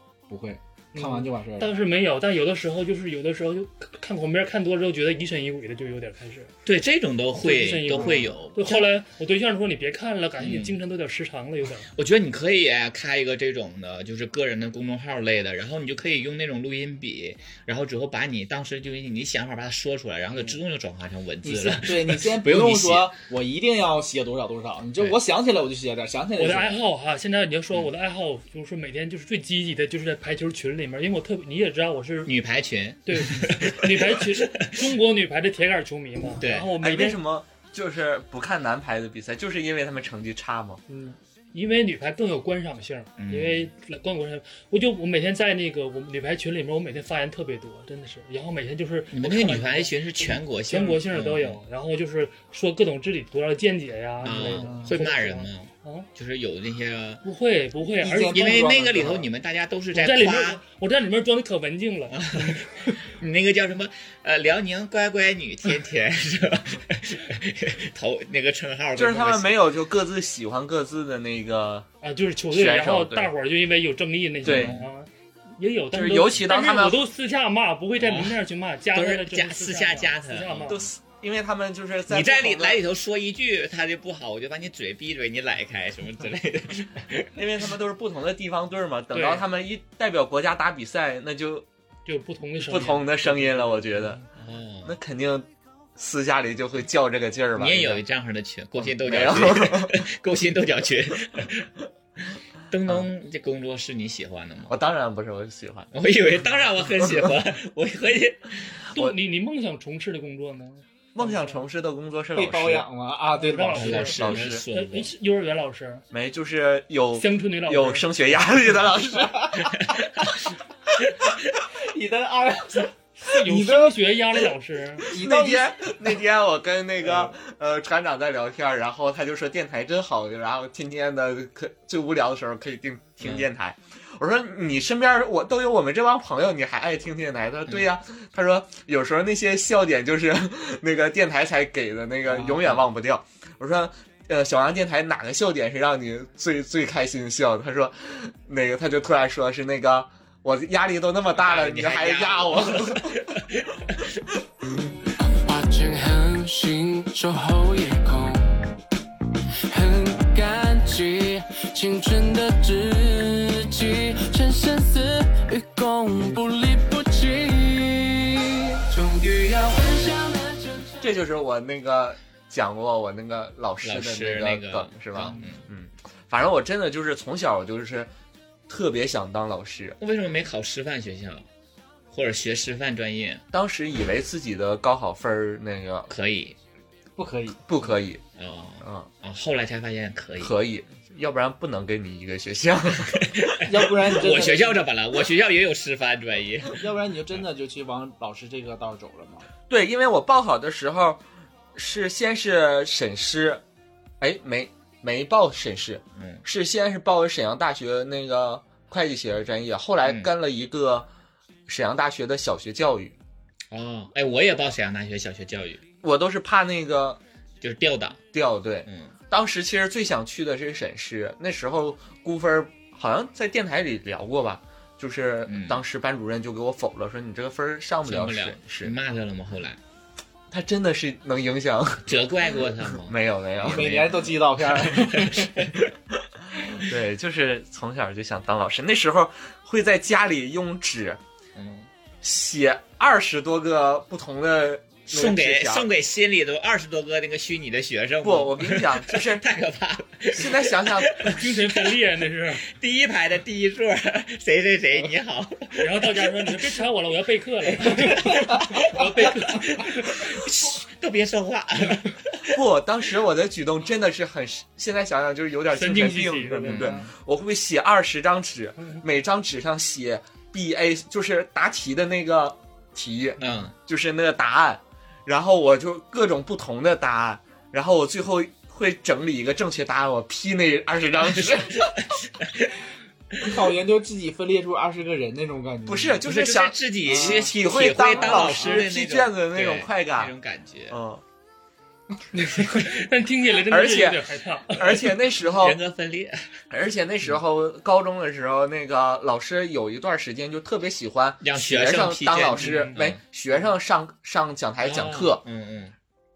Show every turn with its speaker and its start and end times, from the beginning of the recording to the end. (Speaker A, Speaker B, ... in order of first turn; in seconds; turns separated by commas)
Speaker A: 0.3-1.7, Speaker B: 0.9-6.5, Speaker C: 6.7-8.9, Speaker B: 7.4-11.9, Speaker A: 8.0-8.2, Speaker C: 10.4-10.8, Speaker C: 11.9-23.1, Speaker A: 21.4-26.7, Speaker B: 26.4-32.3, Speaker C: 32.2-34.9, Speaker B: 33.1-37.2, Speaker C: 36.4-36.7, Speaker D: 36.8-40.8, Speaker B: 40.9-56.1, Speaker C: 43.2-43.7, Speaker C: 49.1-51.6, Speaker C: 54.2-57.2, Speaker A: 54.3-54.9, Speaker B: 57.2-58.7, Speaker A: 58.0-59.2, Speaker C: 58.3-60.6, Speaker B: 59.9-62.9, Speaker C: 62.1-69.6, Speaker D: 68.9-71.9, Speaker B: 72.0-80.9, Speaker D: 72.5-73.3, Speaker D: 74.4-74.7, Speaker C: 74.4-74.9, Speaker D: 75.9-77.0, Speaker C: 78.0-78.4, Speaker C: 78.9-80.8, Speaker D: 80.7-82.8, Speaker C: 82.1-87.3, Speaker D: 87.3-91.7, Speaker B: 89.1-89.4, Speaker B: 92.0-94.2, Speaker D: 92.6-94.2, Speaker C: 94.4-95.0, Speaker D: 94.8-98.0, Speaker C: 97.5-101.7, Speaker D: 98.8-100.0, Speaker C: 102.7-104.8, Speaker D: 104.7-105.9, Speaker C: 105.9-108.8, Speaker B: 108.9-111.6, Speaker D: 111.1-112.9, Speaker A: 112.4-114.1, Speaker B: 113.3-116.0, Speaker C: 113.8-115.1, Speaker D: 114.1-114.6, Speaker D: 116.1-119.5, Speaker B: 117.1-118.1, Speaker A: 119.2-119.8, Speaker A: 121.8-122.9, Speaker B: 123.2-125.1, Speaker A: 123.4-124.0, Speaker A: 125.1-125.9, Speaker D: 125.1-153.3, Speaker C: 133.2-133.5, Speaker C: 142.5-142.8, Speaker C: 151.3-153.8, Speaker E: 155.2-158.5, Speaker E: 159.7-171.1, Speaker D: 171.0-178.1, Speaker C: 173.8-175.6, Speaker D: 178.7-180.0, Speaker C: 180.0-181.4, Speaker C: 182.1-183.4, Speaker D: 183.5-186.1, Speaker C: 186.1-186.6, Speaker A: 187.2-187.6, Speaker D: 187.7-188.2, Speaker C: 188.4-190.5, Speaker D: 188.8-189.1, Speaker D: 190.4-193.5, Speaker C: 193.2-196.8, Speaker A: 193.6-194.8, Speaker A: 196.7-199.4, Speaker D: 199.7-201.2, Speaker D: 201.7-203.6, Speaker D: 204.2-211.1, Speaker C: 206.2-206.4, Speaker C: 210.1-210.3, Speaker D: 211.7-213.2, Speaker C: 213.7-215.8, Speaker D: 216.0-217.2, Speaker C: 217.6-218.2, Speaker D: 218.3-228.9, Speaker C: 218.9-219.1, Speaker C: 225.5-225.8, Speaker C: 228.1-229.8, Speaker D: 230.5-234.1, Speaker C: 232.1-235.7, Speaker A: 233.7-235.5, Speaker D: 236.7-241.2, Speaker C: 241.6-241.9, Speaker D: 242.2-245.9, Speaker C: 245.1-251.9, Speaker D: 248.2-249.4, Speaker D: 250.3-251.3, Speaker B: 251.3-252.7, Speaker C: 252.7-256.6, Speaker B: 255.8-260.4, Speaker C: 257.7-262.6, Speaker D: 262.5-281.9, Speaker B: 265.7-266.9, Speaker A: 266.6-267.1, Speaker C: 273.4-273.7, Speaker C: 281.4-282.7, Speaker A: 283.4-286.2, Speaker D: 285.9-290.3, Speaker C: 286.2-291.0, Speaker A: 287.1-287.5, Speaker A: 288.1-288.7, Speaker D: 290.9-291.2, Speaker B: 292.3-295.1, Speaker D: 293.7-295.8, Speaker C: 295.5-296.5, Speaker D: 296.7-305.4, Speaker C: 301.4-303.2, Speaker B: 302.6-303.0, Speaker C: 304.8-305.9